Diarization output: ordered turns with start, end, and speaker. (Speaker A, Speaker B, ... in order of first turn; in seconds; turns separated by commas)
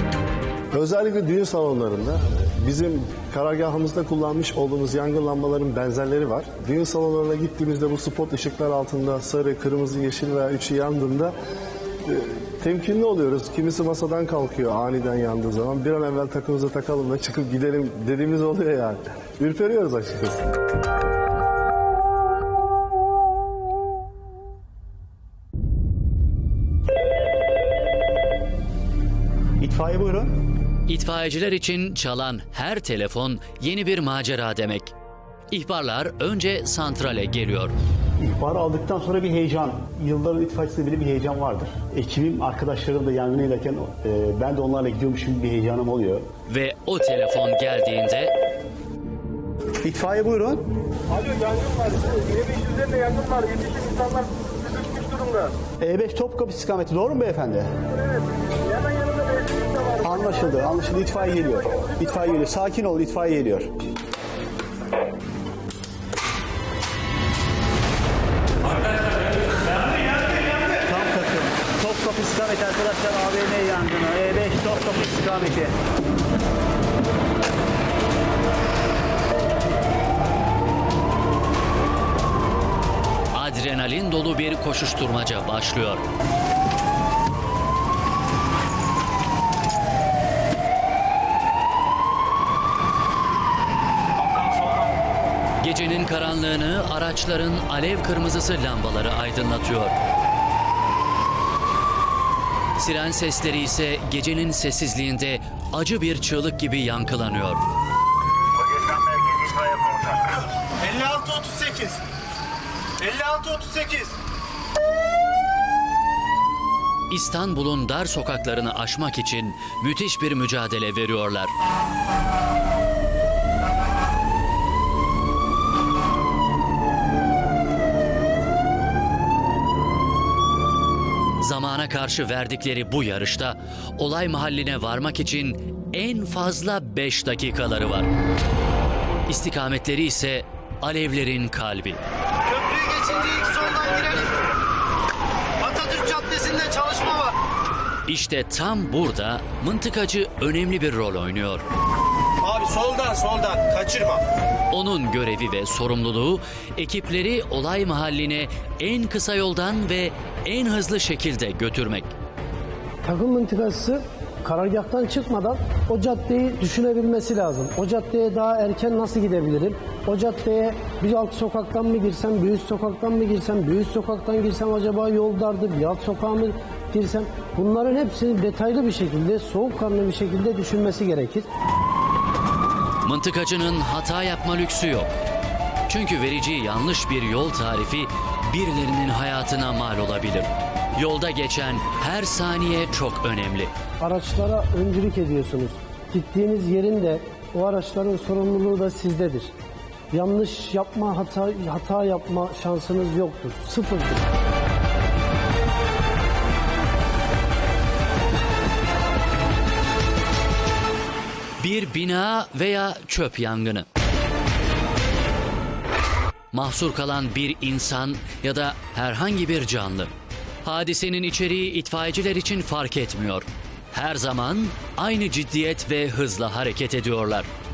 Speaker A: 0.7-11.3, Speaker A: 12.0-20.5, Speaker B: 29.6-30.4, Speaker C: 30.9-34.9, Speaker C: 35.5-37.7, Speaker B: 38.2-46.3, Speaker C: 46.5-48.3, Speaker B: 49.8-50.7, Speaker B: 55.8-57.7, Speaker B: 60.0-63.7, Speaker B: 70.8-75.7, Speaker C: 83.3-86.0, Speaker C: 95.6-100.0, Speaker C: 102.8-107.6, Speaker D: 108.7-110.2, Speaker D: 110.8-112.0, Speaker D: 113.0-114.2, Speaker C: 117.1-121.5, Speaker C: 131.4-138.1, Speaker C: 139.3-142.0, Speaker E: 142.5-144.3, Speaker E: 145.6-147.3, Speaker C: 148.1-151.6, Speaker D: 152.4-154.2, Speaker C: 154.7-162.1, Speaker F: 163.0-181.5, Speaker C: 183.0-185.1, Speaker C: 185.9-193.7, Speaker F: 194.0-199.5, Speaker F: 200.1-204.2, Speaker C: 211.6-213.8, Speaker C: 216.5-220.1, Speaker C: 220.6-227.5